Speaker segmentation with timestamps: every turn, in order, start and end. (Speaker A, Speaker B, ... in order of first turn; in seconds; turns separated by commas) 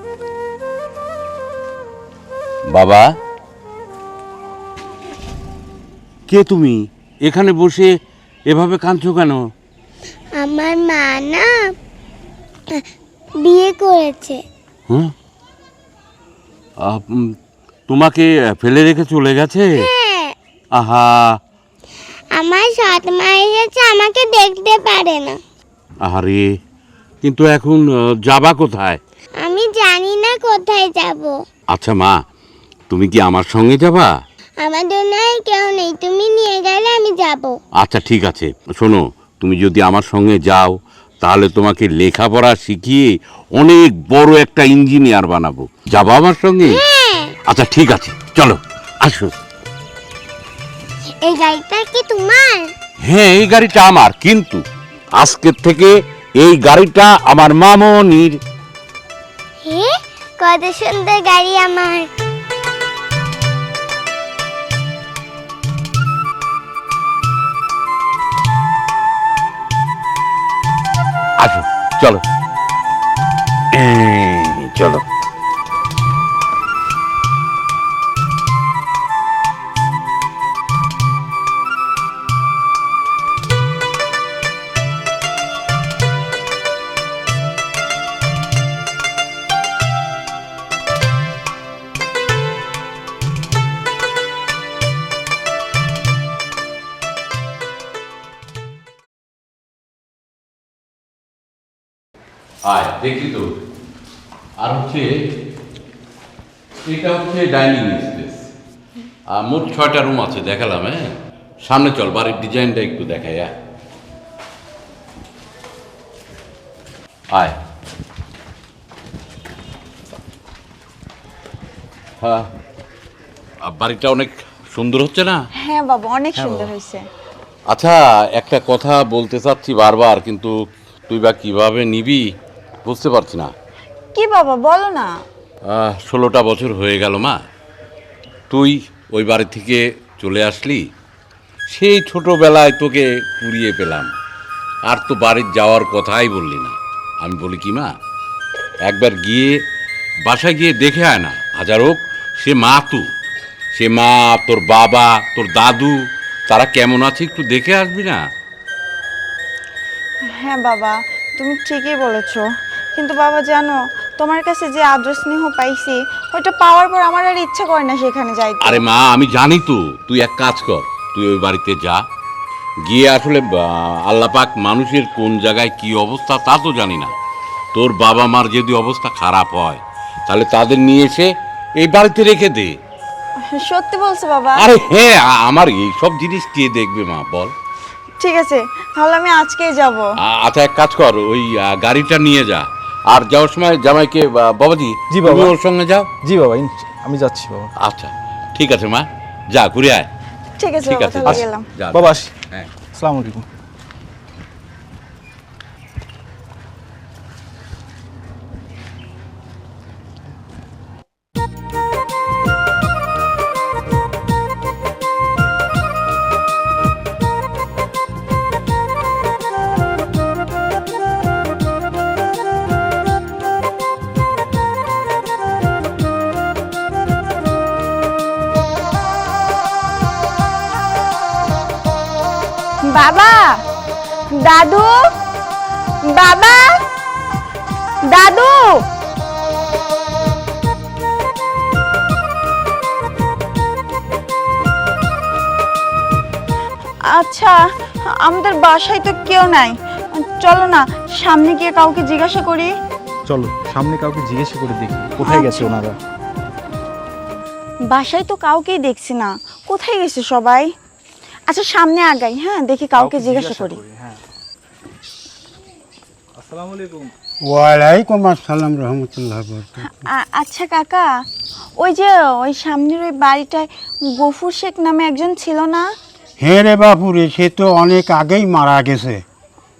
Speaker A: 2.7-3.0, Speaker A: 6.3-7.9, Speaker A: 8.5-9.4, Speaker B: 10.4-11.5, Speaker B: 13.4-14.4, Speaker A: 16.8-17.3, Speaker A: 17.9-19.9, Speaker B: 19.8-20.4, Speaker A: 20.8-21.4, Speaker B: 22.4-25.4, Speaker A: 26.0-26.5, Speaker A: 27.2-29.0, Speaker B: 29.4-31.4, Speaker A: 31.7-32.2, Speaker A: 32.9-34.1, Speaker B: 34.6-37.6, Speaker A: 37.8-46.8, Speaker B: 46.6-47.3, Speaker A: 47.5-49.3, Speaker B: 51.2-52.7, Speaker A: 53.0-54.6, Speaker A: 55.2-58.4, Speaker B: 59.7-62.1, Speaker A: 71.4-72.2, Speaker A: 73.7-75.0, Speaker A: 102.7-103.5, Speaker A: 104.6-105.1, Speaker A: 106.8-108.5, Speaker A: 109.3-111.1, Speaker A: 111.7-113.5, Speaker A: 122.2-122.5, Speaker A: 123.6-125.4, Speaker C: 125.6-127.0, Speaker A: 127.7-130.6, Speaker A: 131.1-132.3, Speaker A: 132.8-133.5, Speaker C: 134.2-135.1, Speaker A: 135.7-137.4, Speaker A: 138.5-140.9, Speaker A: 141.7-144.1, Speaker A: 144.9-147.9, Speaker A: 148.9-149.6, Speaker A: 150.3-153.1, Speaker A: 153.8-156.0, Speaker A: 156.5-158.2, Speaker C: 160.4-168.8, Speaker A: 168.6-172.0, Speaker A: 172.9-177.1, Speaker A: 177.8-182.8, Speaker C: 183.5-184.7, Speaker A: 184.6-187.5, Speaker C: 188.2-190.1, Speaker A: 190.2-196.1, Speaker D: 195.1-195.5, Speaker D: 196.2-197.7, Speaker A: 197.8-200.1, Speaker C: 200.6-201.6, Speaker A: 200.8-202.7, Speaker D: 201.9-202.3, Speaker D: 202.9-203.5, Speaker C: 232.9-233.6, Speaker C: 234.3-235.0, Speaker C: 236.1-236.7, Speaker C: 238.1-238.8, Speaker C: 247.1-247.6, Speaker C: 248.1-252.7, Speaker D: 253.3-256.0, Speaker C: 255.2-255.8, Speaker C: 257.9-260.7, Speaker C: 261.5-263.8, Speaker D: 263.0-264.2, Speaker D: 266.4-267.1, Speaker E: 267.5-269.9, Speaker C: 269.9-271.1, Speaker C: 271.8-275.9, Speaker E: 276.4-279.2